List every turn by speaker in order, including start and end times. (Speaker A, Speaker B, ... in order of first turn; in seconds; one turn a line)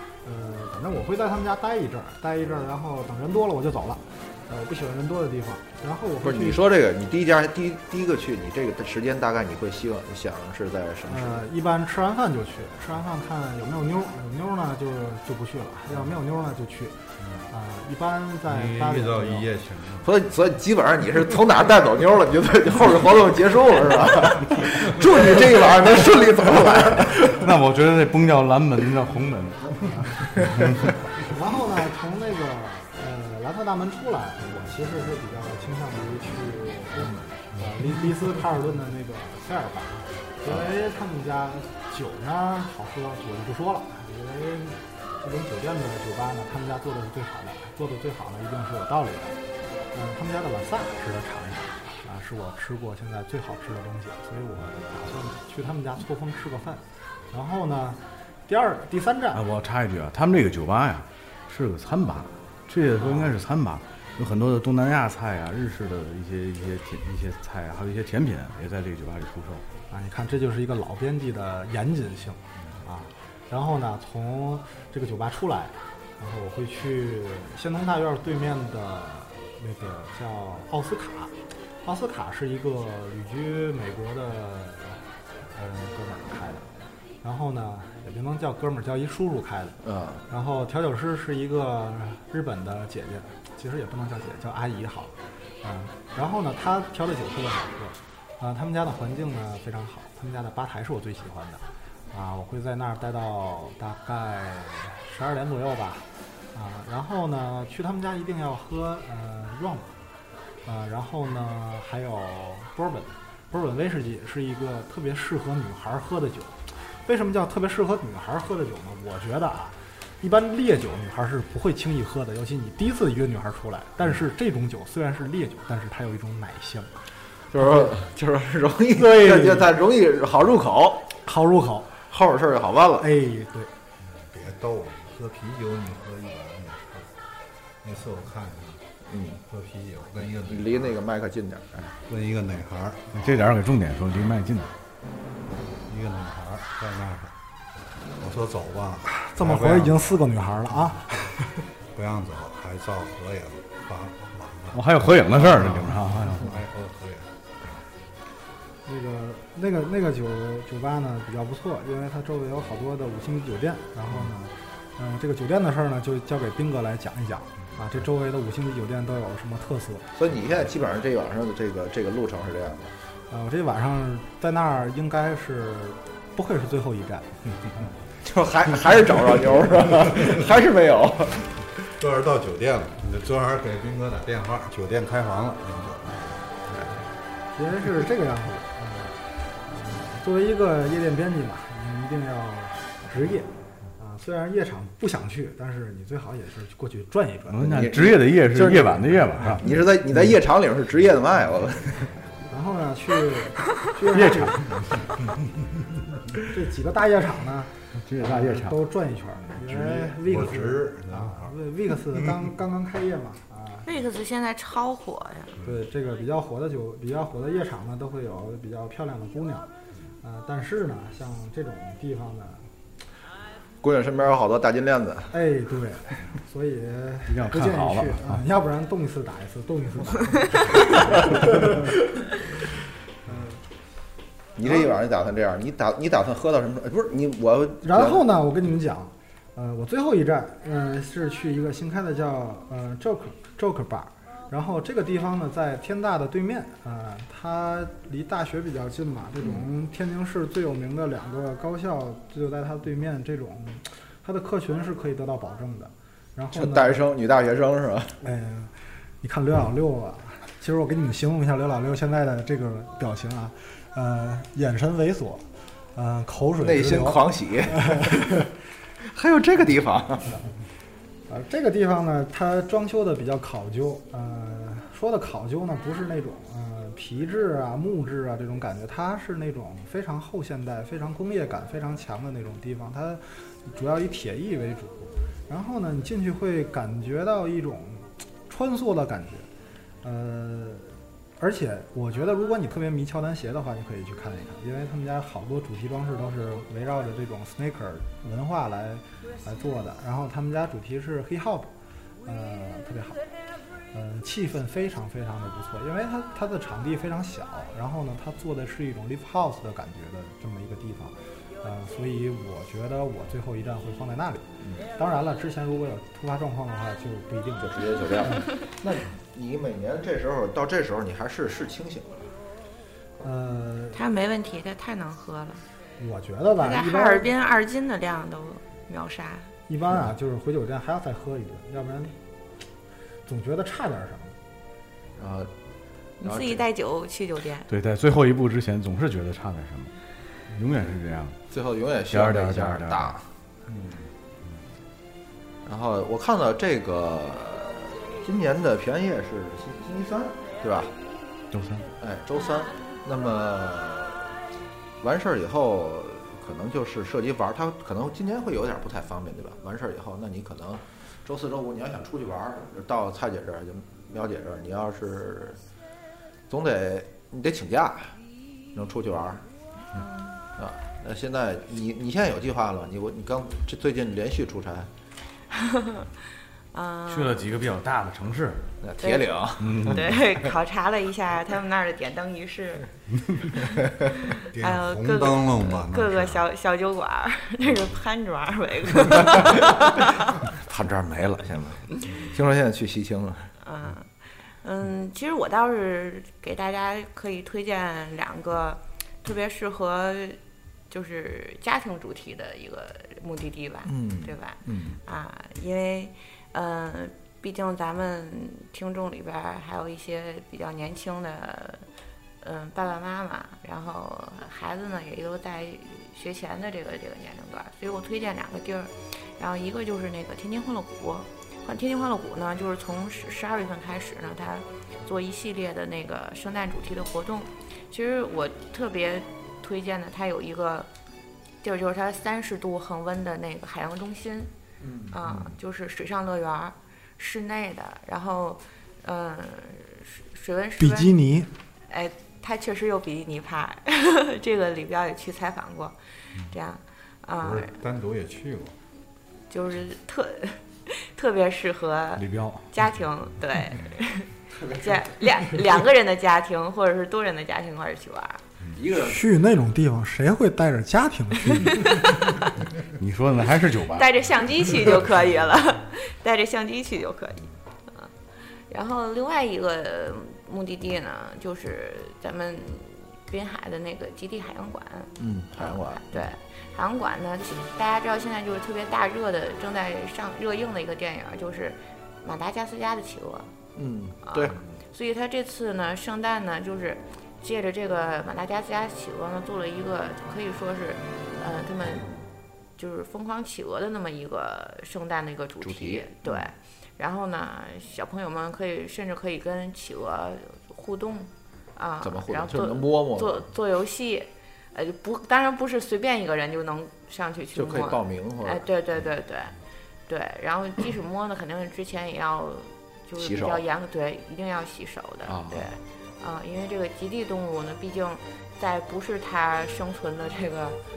Speaker A: 0.2-6.6
Speaker B: 6.2-11.4
Speaker A: 11.1-19.5
Speaker C: 17.2-17.5
Speaker C: 18.5-20.1
Speaker B: 20.0-27.5
Speaker D: 27.3-30.9
Speaker A: 31.2-49.4
Speaker A: 49.9-59.4
Speaker D: 59.4-69.6
Speaker A: 63.0-63.3
Speaker A: 69.9-86.7
Speaker A: 87.2-110.0
Speaker B: 89.8-90.2
Speaker A: 110.7-126.9
Speaker B: 127.5-131.1
Speaker A: 127.6-127.9
Speaker A: 128.9-129.7
Speaker A: 131.2-131.9
Speaker B: 132.1-133.1
Speaker A: 133.0-133.7
Speaker C: 134.0-137.1
Speaker C: 137.8-138.8
Speaker B: 139.1-139.4
Speaker C: 139.5-140.9
Speaker B: 140.5-141.9
Speaker C: 142.1-143.5
Speaker D: 143.1-144.7
Speaker C: 145.8-147.3
Speaker C: 148.2-150.3
Speaker A: 149.1-151.2
Speaker C: 151.9-157.8
Speaker D: 154.7-156.6
Speaker A: 158.9-170.1
Speaker B: 170.2-172.9
Speaker A: 173.3-177.4
Speaker B: 178.2-181.5
Speaker C: 182.0-186.6
Speaker A: 187.6-197.8
Speaker D: 197.5-199.7
Speaker B: 197.6-202.1
Speaker A: 202.5-204.7
Speaker D: 204.1-204.7
Speaker A: 206.4-213.9
Speaker D: 208.0-208.8
Speaker C: 209.5-211.6
Speaker E: 213.9-215.6
Speaker A: 215.6-219.7
Speaker A: 220.2-222.7
Speaker B: 223.8-225.3
Speaker A: 225.3-231.9
Speaker D: 227.3-228.4
Speaker A: 233.3-233.6
Speaker B: 234.6-238.2
Speaker A: 237.8-257.0
Speaker B: 249.4-249.7
Speaker B: 256.5-258.2
Speaker A: 258.2-268.4
Speaker B: 266.6-268.4
Speaker B: 269.0-270.4
Speaker A: 271.3-289.5
Speaker A: 290.0-301.7
Speaker A: 302.3-303.2
Speaker A: 303.9-318.4
Speaker B: 317.6-322.3
Speaker A: 323.2-324.0
Speaker E: 323.9-325.6
Speaker A: 326.0-327.3
Speaker E: 326.6-329.5
Speaker A: 329.7-332.2
Speaker A: 333.3-334.4
Speaker B: 335.2-335.5
Speaker E: 336.2-337.7
Speaker B: 336.2-336.7
Speaker D: 337.7-339.9
Speaker D: 340.5-341.4
Speaker B: 341.5-343.3
Speaker D: 342.1-343.1
Speaker B: 345.7-350.9
Speaker D: 351.5-351.9
Speaker B: 352.0-354.3
Speaker B: 355.0-365.6
Speaker B: 366.5-368.2
Speaker B: 368.7-369.4
Speaker E: 369.9-370.4
Speaker B: 370.6-374.9
Speaker E: 375.5-376.2
Speaker E: 376.7-377.5
Speaker D: 377.1-378.7
Speaker B: 378.8-380.5
Speaker E: 379.0-390.4
Speaker D: 379.6-380.2
Speaker C: 384.5-386.4
Speaker B: 390.5-393.5
Speaker E: 393.6-394.1
Speaker E: 394.6-400.4
Speaker E: 400.9-411.9
Speaker B: 403.9-405.0
Speaker E: 412.4-430.9
Speaker E: 431.6-434.5
Speaker B: 434.8-435.6
Speaker E: 435.1-441.1
Speaker A: 440.8-441.5
Speaker E: 441.9-447.7
Speaker C: 447.4-448.8
Speaker E: 449.5-458.4
Speaker D: 452.2-452.7
Speaker B: 454.5-455.4
Speaker B: 458.7-459.3
Speaker A: 458.9-461.9
Speaker E: 461.5-462.1
Speaker D: 462.8-464.1
Speaker E: 463.9-468.1
Speaker E: 468.7-483.5
Speaker B: 475.2-476.3
Speaker B: 483.8-484.7
Speaker E: 484.2-492.2
Speaker E: 492.8-520.8
Speaker B: 495.6-496.5
Speaker B: 502.0-503.5
Speaker B: 507.5-508.7
Speaker B: 513.2-513.6
Speaker B: 515.3-515.7